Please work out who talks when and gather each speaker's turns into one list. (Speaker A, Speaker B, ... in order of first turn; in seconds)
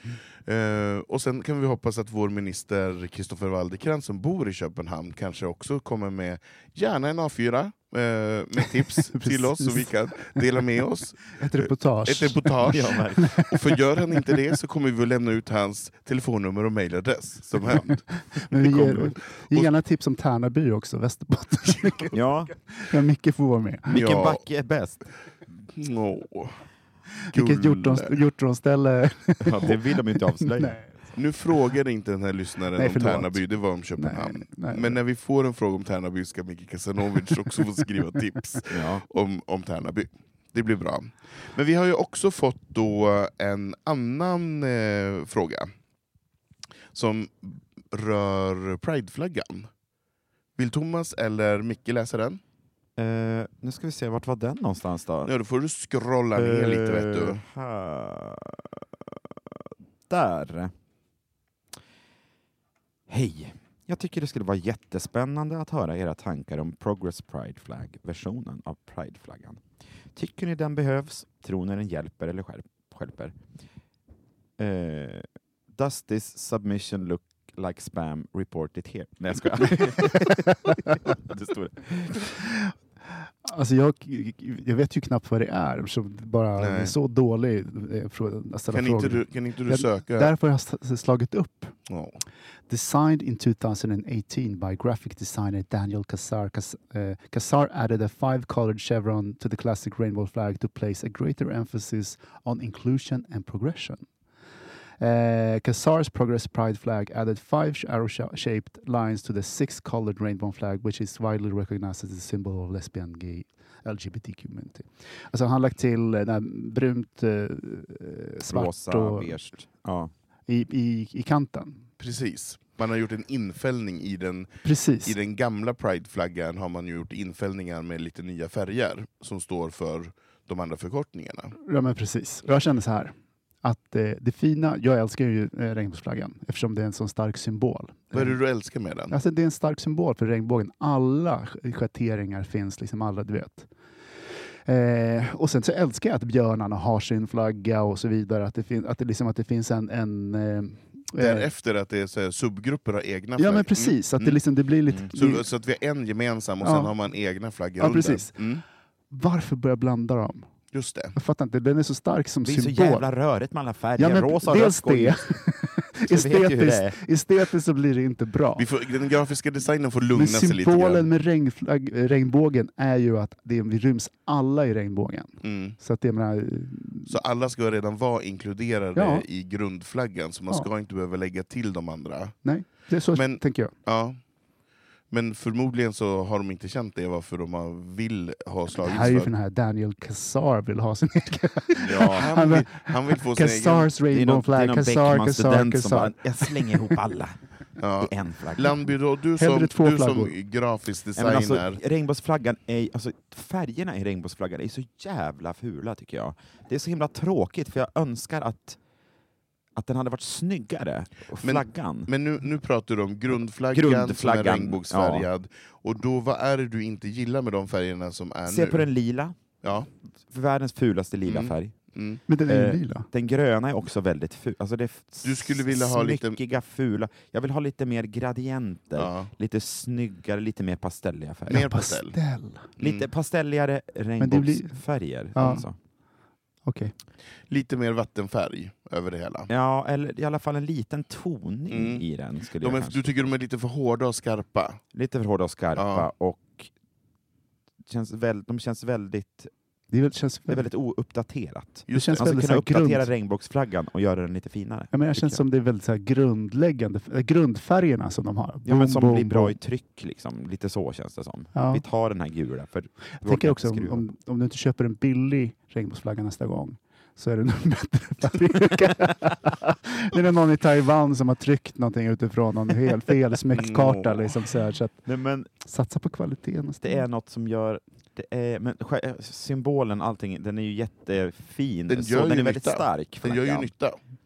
Speaker A: 0.4-18.0, 23.9-24.4, 25.7-26.6, 27.3-28.1, 31.1-45.7, 46.9-49.7, 50.5-52.4, 55.2-57.4, 86.6-86.9, 88.7-90.3, 91.9-92.2, 122.0-131.5, 138.1-139.1, 151.2-154.4, 155.1-158.6, 160.7-161.2, 168.6-171.1, 175.4-175.8, 177.1-182.4, 183.1-184.2, 185.1-189.3, 191.8-193.9, 197.8-201.8, 211.4-218.9, 219.6-219.9, 221.2-222.2, 225.2-226.4, 228.9-229.3, 231.5-232.2, 232.8-233.1, 237.5-239.5, 241.7-242.0, 242.6-244.8, 245.7-246.1, 251.9-252.3, 273.5-274.3, 281.9-284.0
Speaker B: 8.8-10.4, 11.3-13.5, 17.9-22.2, 22.8-23.9, 27.3-30.9, 32.8-33.4, 34.0-35.0, 82.4-91.7, 92.7-104.0, 105.0-119.3, 120.5-121.8, 124.6-125.2, 131.6-138.4, 139.1-143.7, 144.7-151.5, 153.4-155.4, 156.6-156.9, 157.8-158.3, 159.1-160.5, 161.1-163.0, 164.0-168.7, 170.1-177.2, 178.9-179.2, 182.4-183.7, 188.8-196.9, 199.4-200.3, 222.3-223.1, 231.5-232.7, 234.2-234.8, 235.3-235.6, 236.7-236.9, 249.9-250.7, 251.9-253.1, 254.9-259.6, 261.5-261.8, 263.2-275.0, 275.6-277.0
Speaker C: 12.6-13.4, 18.6-19.1, 22.1-22.5, 23.9-25.0, 29.4-30.8, 38.7-39.0, 53.0-55.3, 56.4-59.1, 60.1-60.7, 63.1-69.6, 70.1-73.3, 74.6-82.3, 118.5-120.1, 162.4-165.4, 166.0-167.0, 191.8-192.3, 194.1-197.4, 198.0-198.8, 201.2-208.8, 209.8-212.1, 213.7-215.3, 218.5-219.3, 220.2-221.8, 222.4-231.7, 232.8-235.7, 239.5-243.1, 244.9-246.7, 247.9-249.5, 250.5-255.4, 258.6-264.0, 275.0-275.5, 276.8-283.7